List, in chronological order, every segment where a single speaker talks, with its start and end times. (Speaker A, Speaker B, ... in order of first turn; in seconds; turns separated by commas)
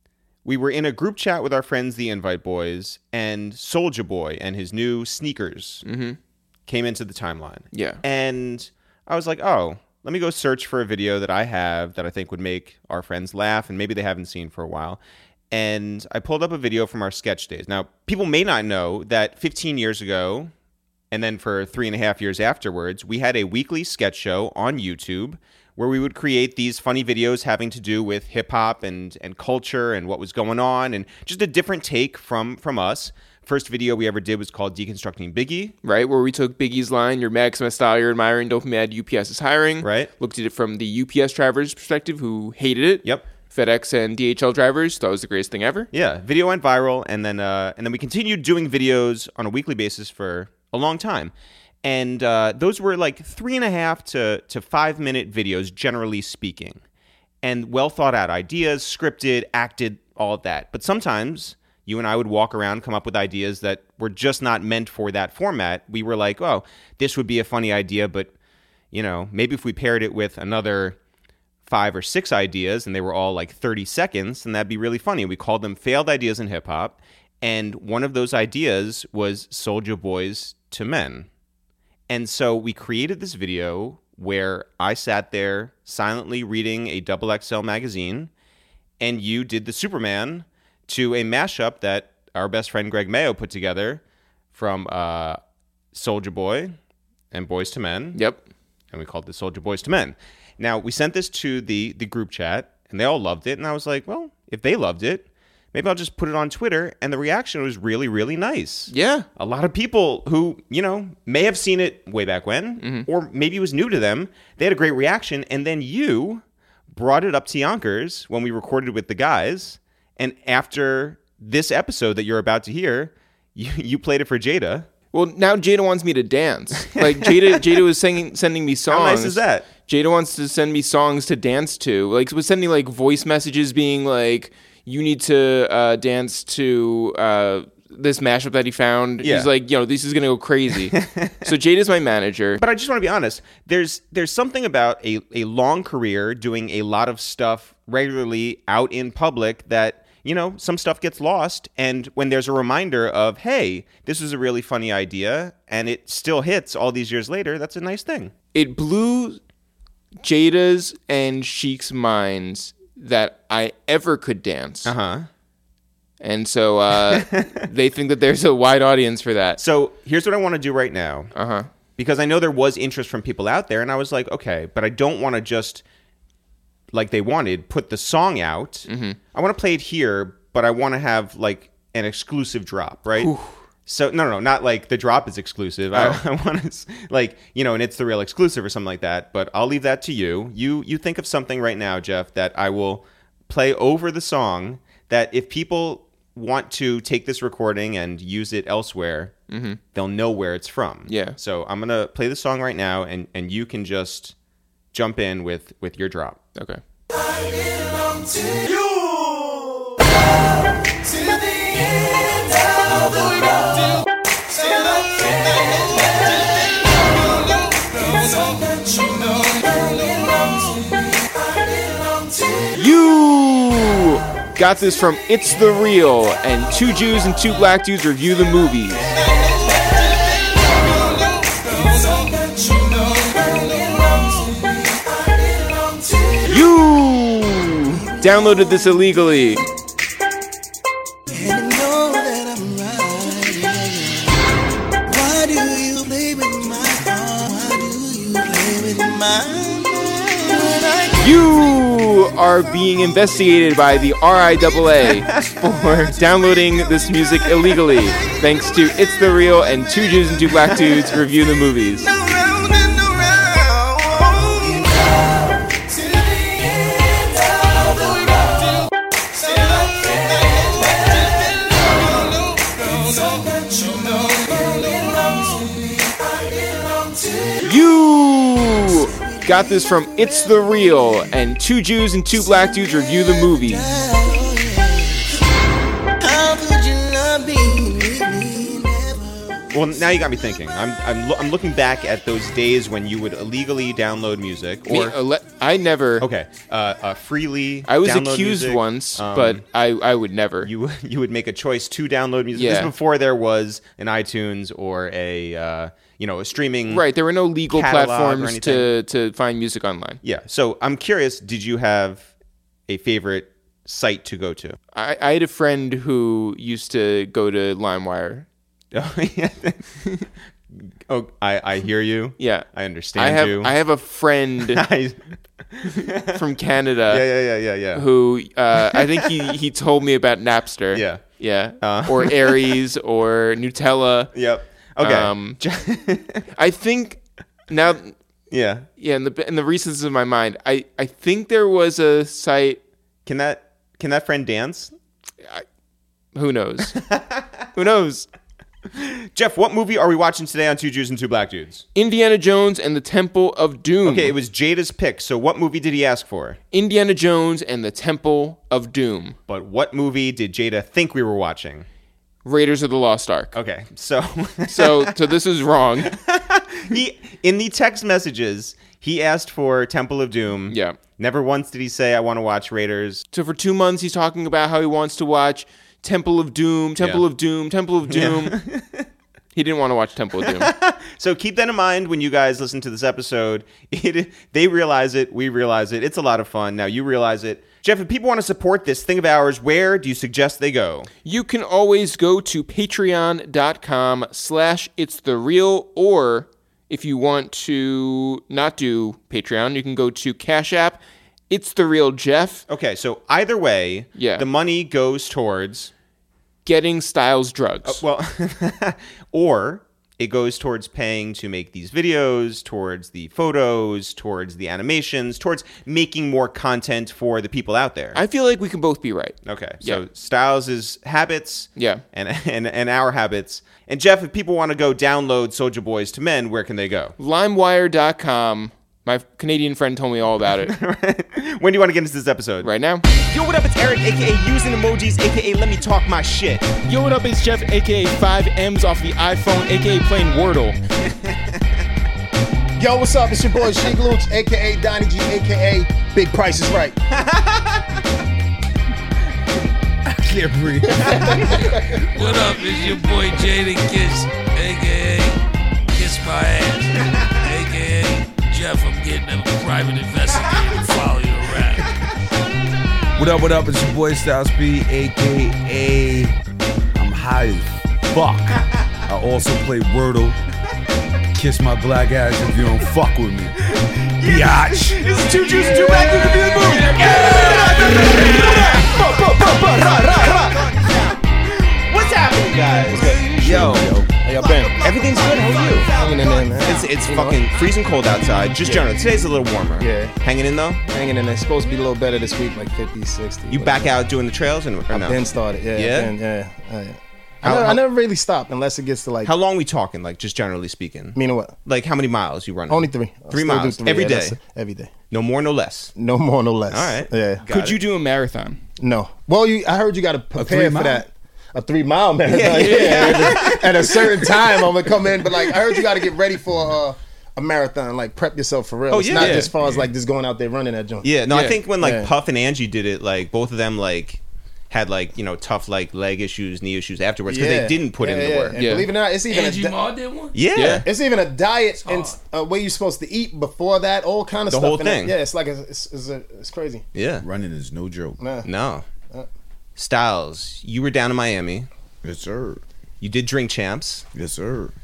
Speaker A: 0.5-5.8, Speaker B: 5.8-6.2, Speaker A: 6.7-20.5, Speaker B: 7.7-8.0, Speaker A: 21.1-35.7, Speaker B: 35.8-45.9, Speaker A: 39.8-40.1, Speaker A: 45.9-56.8, Speaker A: 57.4-68.3, Speaker A: 68.9-71.0, Speaker A: 71.7-81.3, Speaker A: 82.1-88.3, Speaker A: 89.0-94.0, Speaker A: 94.5-95.4, Speaker A: 95.9-96.8, Speaker A: 97.3-98.2, Speaker B: 98.1-98.4, Speaker A: 98.9-124.9, Speaker B: 108.9-109.3, Speaker B: 112.8-113.1, Speaker B: 125.1-142.6, Speaker A: 126.8-127.8, Speaker A: 128.9-129.7, Speaker A: 139.2-139.5, Speaker A: 140.9-141.5, Speaker A: 142.6-158.3, Speaker B: 158.5-159.4, Speaker B: 160.2-164.9, Speaker A: 164.8-165.3, Speaker B: 166.2-169.6, Speaker A: 166.9-167.7, Speaker A: 169.6-171.3, Speaker B: 171.3-171.7, Speaker A: 172.0-175.8, Speaker A: 176.9-183.3, Speaker B: 178.9-179.2, Speaker B: 183.2-183.6, Speaker A: 183.9-199.3, Speaker B: 185.9-186.2, Speaker B: 199.5-199.8, Speaker A: 199.9-204.3, Speaker B: 201.1-201.4, Speaker A: 204.9-206.4, Speaker B: 206.6-206.8, Speaker C: 207.3-209.9, Speaker C: 211.2-214.0, Speaker C: 214.5-222.8, Speaker B: 222.8-229.2, Speaker C: 229.5-236.7, Speaker B: 236.5-239.6, Speaker C: 238.0-239.4, Speaker C: 241.3-244.4, Speaker C: 245.1-251.5, Speaker B: 251.2-262.1, Speaker C: 257.6-258.8, Speaker C: 260.9-261.2, Speaker C: 262.1-268.8, Speaker C: 269.4-277.8, Speaker B: 277.6-283.9, Speaker C: 278.6-281.3, Speaker C: 282.4-285.4, Speaker C: 286.2-289.7, Speaker A: 289.7-295.2, Speaker B: 294.9-296.3, Speaker A: 296.2-299.6, Speaker B: 297.9-300.7, Speaker A: 300.6-307.1, Speaker B: 302.5-302.9, Speaker B: 306.9-310.2, Speaker A: 307.7-308.9, Speaker A: 310.2-312.3, Speaker A: 312.9-314.8, Speaker B: 314.9-318.5, Speaker A: 318.9-320.3, Speaker A: 321.1-323.7, Speaker B: 322.4-324.8, Speaker A: 324.7-325.2, Speaker A: 325.7-326.4, Speaker B: 326.3-327.3, Speaker A: 327.1-328.1, Speaker B: 327.9-334.4, Speaker A: 328.7-329.5, Speaker A: 330.9-331.2, Speaker A: 331.8-332.8, Speaker A: 334.3-336.4, Speaker B: 335.0-335.6, Speaker B: 336.6-338.1, Speaker A: 338.5-338.9, Speaker B: 338.9-342.8, Speaker A: 343.3-344.9, Speaker B: 346.3-347.0, Speaker A: 347.0-347.5, Speaker B: 347.8-348.3, Speaker A: 348.9-351.9, Speaker B: 351.9-354.4, Speaker A: 354.0-356.6, Speaker B: 356.7-359.4, Speaker A: 359.5-361.9, Speaker B: 362.4-363.6, Speaker A: 363.5-365.3, Speaker B: 364.7-366.1, Speaker A: 366.1-373.2, Speaker B: 370.7-371.0, Speaker B: 373.3-378.6, Speaker A: 377.0-377.3, Speaker A: 378.1-379.1, Speaker B: 379.5-380.7, Speaker A: 380.4-391.1, Speaker B: 391.2-402.6, Speaker A: 402.7-405.9, Speaker B: 404.1-404.5, Speaker B: 406.6-408.0, Speaker A: 407.8-418.2, Speaker B: 418.1-420.0, Speaker A: 419.4-427.1, Speaker B: 421.8-422.0, Speaker B: 427.2-430.7, Speaker A: 430.5-436.6, Speaker B: 432.6-433.1, Speaker B: 436.8-440.8, Speaker D: 442.8-447.0, Speaker A: 447.1-447.8, Speaker E: 450.1-451.6, Speaker D: 450.9-452.1, Speaker F: 451.5-455.4, Speaker F: 455.9-461.9, Speaker E: 463.2-466.4, Speaker E: 466.9-470.4, Speaker E: 471.3-473.6, Speaker A: 473.7-483.8, Speaker E: 474.2-478.2, Speaker B: 474.9-479.0, Speaker D: 482.9-483.6, Speaker E: 483.4-484.1, Speaker D: 484.2-484.9, Speaker A: 484.8-490.8, Speaker B: 485.3-485.9, Speaker D: 485.8-487.4, Speaker D: 488.6-488.9, Speaker D: 489.8-490.1, Speaker D: 490.9-493.9, Speaker A: 493.5-495.2, Speaker D: 494.9-499.3, Speaker A: 495.7-496.1, Speaker A: 497.4-497.8, Speaker A: 499.2-504.4, Speaker D: 501.1-501.6, Speaker D: 502.7-504.9, Speaker A: 505.1-505.9, Speaker D: 506.0-507.4, Speaker A: 506.7-507.8, Speaker B: 507.5-508.6, Speaker D: 508.8-521.1, Speaker E: 510.4-511.0, Speaker A: 512.3-514.7, Speaker B: 512.4-513.5, Speaker A: 518.9-519.5, Speaker B: 519.2-519.5, Speaker A: 521.0-528.6, Speaker B: 521.3-521.6, Speaker D: 521.8-522.1, Speaker D: 527.3-529.8, Speaker B: 528.5-528.9, Speaker F: 529.3-530.4, Speaker A: 530.3-530.9, Speaker B: 530.5-530.9, Speaker D: 530.9-536.9, Speaker F: 531.8-532.2, Speaker A: 534.5-535.1, Speaker A: 536.9-537.3, Speaker E: 537.2-538.2, Speaker D: 538.2-538.5, Speaker A: 538.4-538.9, Speaker A: 539.8-541.7, Speaker E: 542.0-542.6, Speaker A: 543.0-544.0, Speaker E: 544.1-544.7